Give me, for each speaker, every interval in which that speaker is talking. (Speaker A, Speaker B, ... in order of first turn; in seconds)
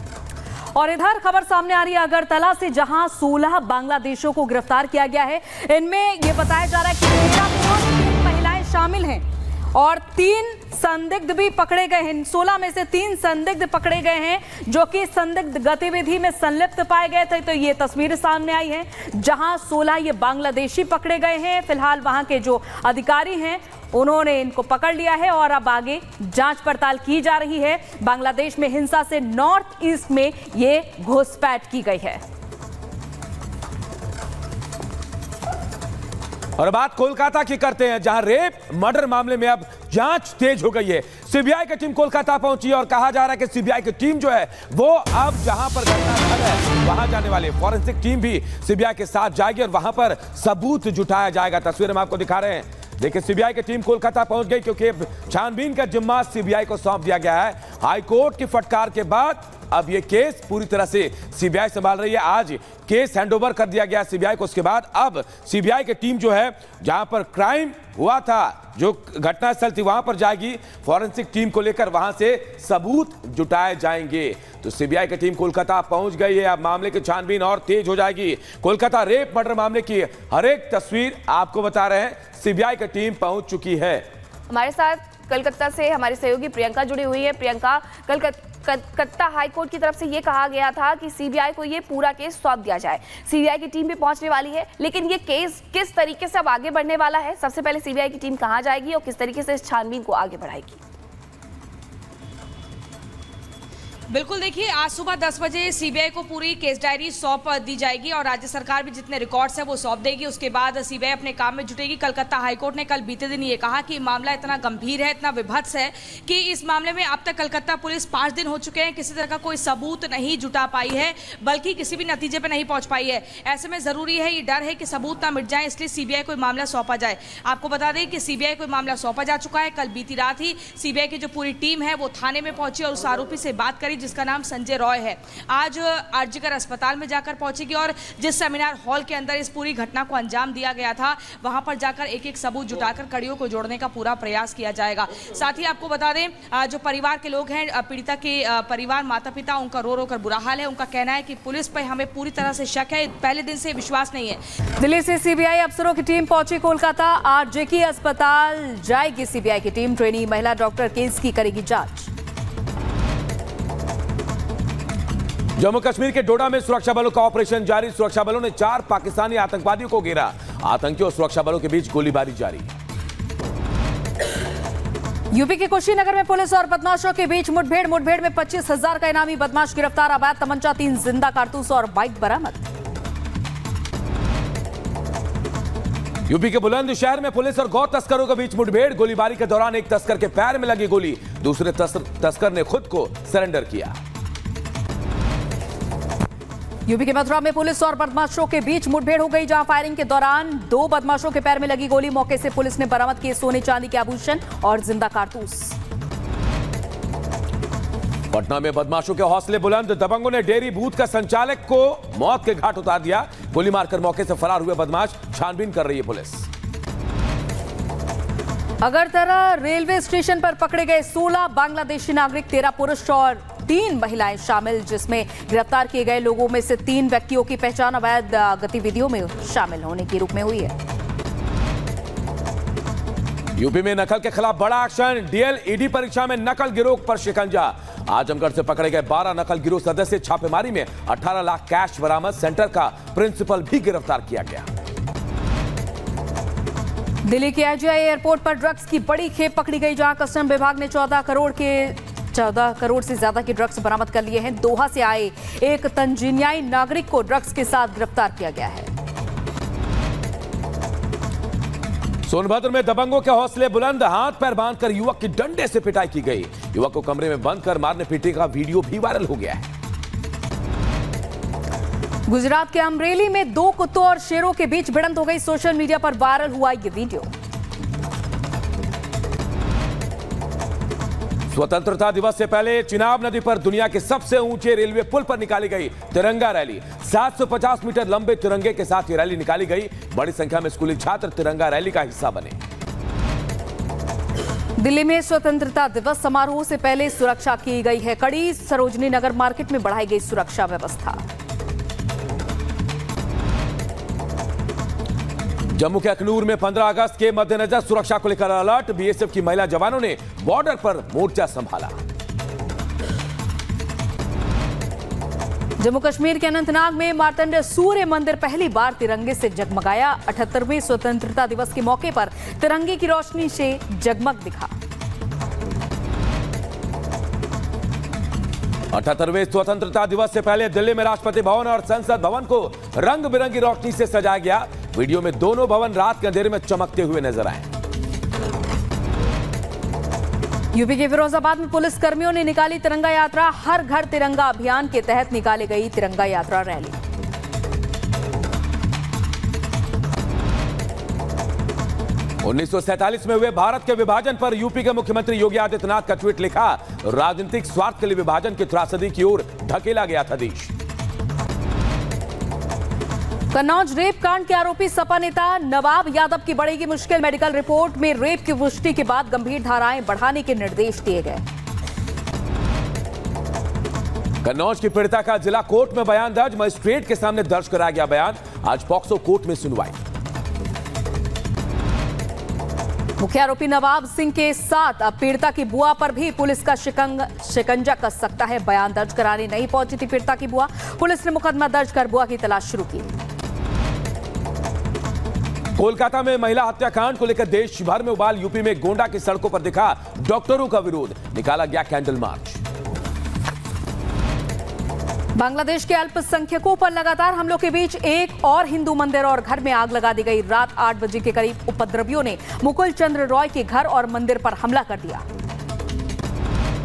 Speaker A: 0.7-32.2, 154.8-162.1, 175.3-182.7, 196.9-205.8, 218.8-230.7, 247.2-258.9, 272.3-277.3, 294.8-301.2, 315.8-324.7, 340.7-347.0, 363.5-371.4, 383.2-393.1, 405.4-415.2
Speaker B: 36.6-84.0, 165.6-172.7, 186.3-194.0, 208.3-216.5, 233.6-244.7, 262.2-269.7, 281.5-292.6, 305.7-312.0, 328.9-337.7, 352.4-360.7, 374.4-380.0, 395.8-402.6
Speaker C: 84.5-100.8
Speaker D: 104.1-154.4